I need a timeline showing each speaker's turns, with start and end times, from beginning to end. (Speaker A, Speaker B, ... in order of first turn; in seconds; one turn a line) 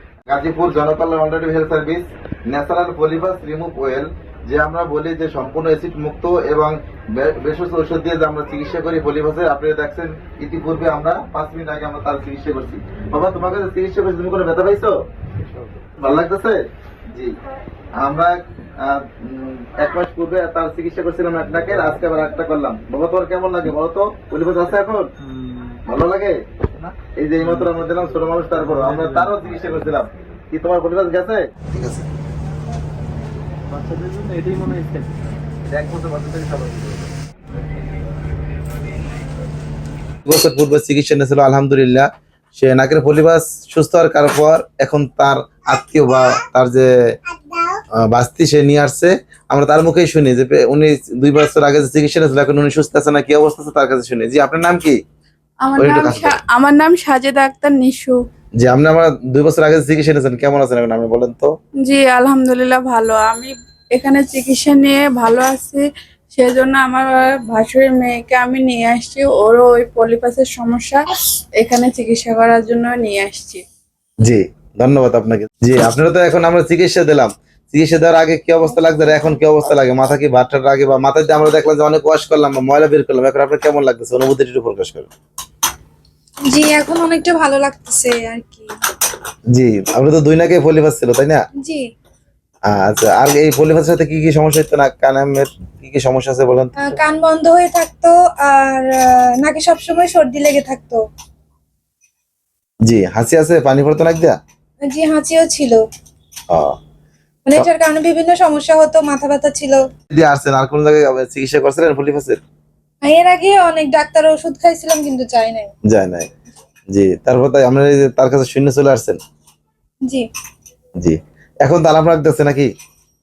Speaker A: 0.3-14.9
Speaker A: 16.0-16.6
Speaker A: 18.0-25.1
Speaker A: 25.9-32.1
Speaker B: 28.6-29.3
Speaker B: 33.7-35.1
Speaker A: 35.7-37.1
Speaker A: 40.2-46.9
Speaker A: 48.0-55.0
Speaker C: 55.6-58.2
Speaker A: 55.8-56.4
Speaker A: 58.6-61.5
Speaker C: 61.8-71.0
Speaker C: 71.6-73.6
Speaker A: 74.2-85.1
Speaker D: 86.5-88.7
Speaker A: 89.5-91.4
Speaker A: 92.7-96.9
Speaker D: 96.8-101.0
Speaker A: 102.9-104.4
Speaker D: 104.9-105.8
Speaker A: 106.5-106.8
Speaker D: 107.5-109.8
Speaker A: 110.1-112.4
Speaker D: 113.0-115.7
Speaker A: 115.9-116.3
Speaker A: 116.9-119.2
Speaker A: 121.0-122.7